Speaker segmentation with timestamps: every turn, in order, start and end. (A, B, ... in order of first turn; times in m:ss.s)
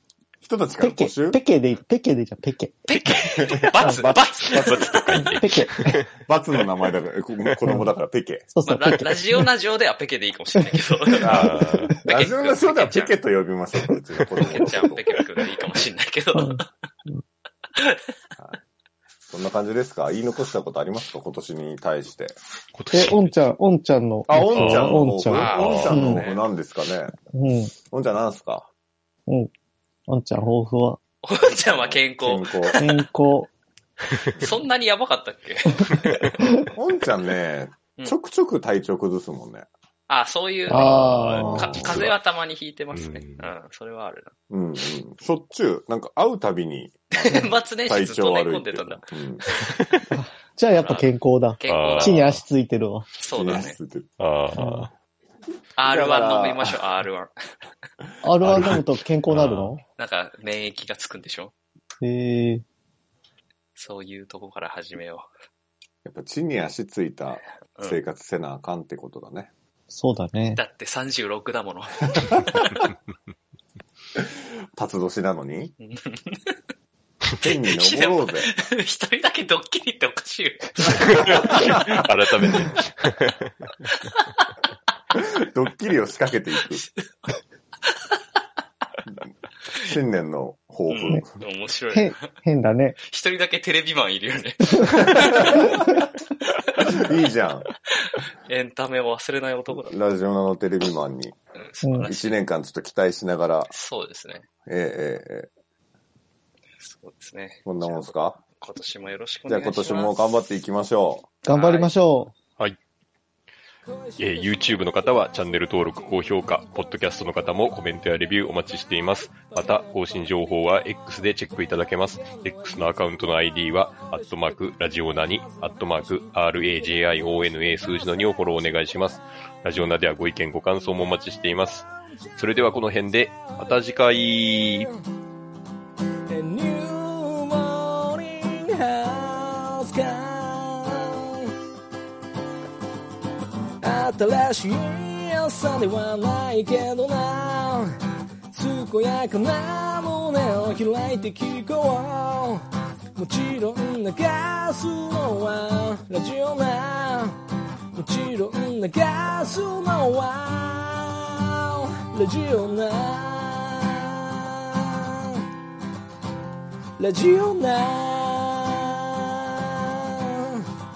0:00.4-0:01.4 A
0:00.8-0:02.8 B
0:02.9-0:05.2 C
0:03.3-0:05.3 A
0:04.5-0:06.1 D
0:05.2-0:05.8 B
0:06.1-0:08.5 A
0:08.5-0:09.5 B
0:08.6-0:13.2 C
0:10.6-0:11.9 B
0:11.2-0:15.2 A
0:11.3-0:12.0 D
0:14.4-0:16.7 C
0:16.4-0:17.2 B
0:19.3-0:22.4 A
0:22.7-0:23.3 D
0:22.9-0:26.3 B
0:24.3-0:27.1 A
0:24.5-0:25.6 D
0:25.3-0:26.4 C
0:27.3-0:27.7 B
0:27.9-0:28.7 A
0:30.1-0:31.0 B
0:31.2-0:33.0 C
0:31.7-0:32.8 A
0:32.8-0:33.5 B
0:34.4-0:36.3 C
0:36.4-0:36.7 B
0:36.8-0:39.7 A
0:40.1-0:44.3 C
0:40.7-0:41.9 B
0:40.8-0:42.1 A
0:41.2-0:42.1 D
0:42.9-0:43.5 D
0:44.5-0:47.0 A
0:47.2-0:50.0 C
0:47.8-0:49.4 A
0:50.1-0:53.1 B
0:50.8-0:52.3 C
0:51.7-0:52.4 D
0:53.2-0:53.8 C
0:53.3-0:54.2 A
0:54.2-0:54.9 D
0:54.5-0:54.9 B
0:55.8-0:57.3 C
0:55.8-0:56.8 A
0:58.2-0:59.8 B
0:58.4-0:58.7 D
0:59.3-0:59.7 D
1:00.0-1:01.5 C
1:02.0-1:02.6 B
1:03.8-1:05.3 C
1:06.0-1:09.5 A
1:09.9-1:10.6 B
1:10.6-1:12.6 C
1:14.2-1:15.8 A
1:15.8-1:16.6 C
1:17.4-1:22.7 C
1:17.4-1:18.5 A
1:21.2-1:23.5 D
1:21.3-1:21.9 A
1:22.5-1:22.8 A
1:25.2-1:26.8 A
1:26.8-1:27.3 C
1:27.9-1:28.2 C
1:29.8-1:31.3 A
1:30.9-1:32.2 C
1:31.9-1:33.0 B
1:33.0-1:35.8 C
1:36.5-1:37.0 C
1:37.0-1:37.7 A
1:38.1-1:39.9 C
1:39.7-1:41.4 A
1:41.6-1:42.4 C
1:41.8-1:42.1 B
1:42.0-1:43.8 A
1:43.7-1:44.4 C
1:44.7-1:45.5 A
1:46.8-1:50.3 C
1:47.7-1:48.4 A
1:49.5-1:51.3 A
1:51.4-1:52.3 B
1:51.5-1:52.0 C
1:54.2-2:14.9 D
2:16.3-2:21.5 E
2:23.8-2:37.4 E
2:38.0-2:45.5 E
2:47.0-2:50.6 E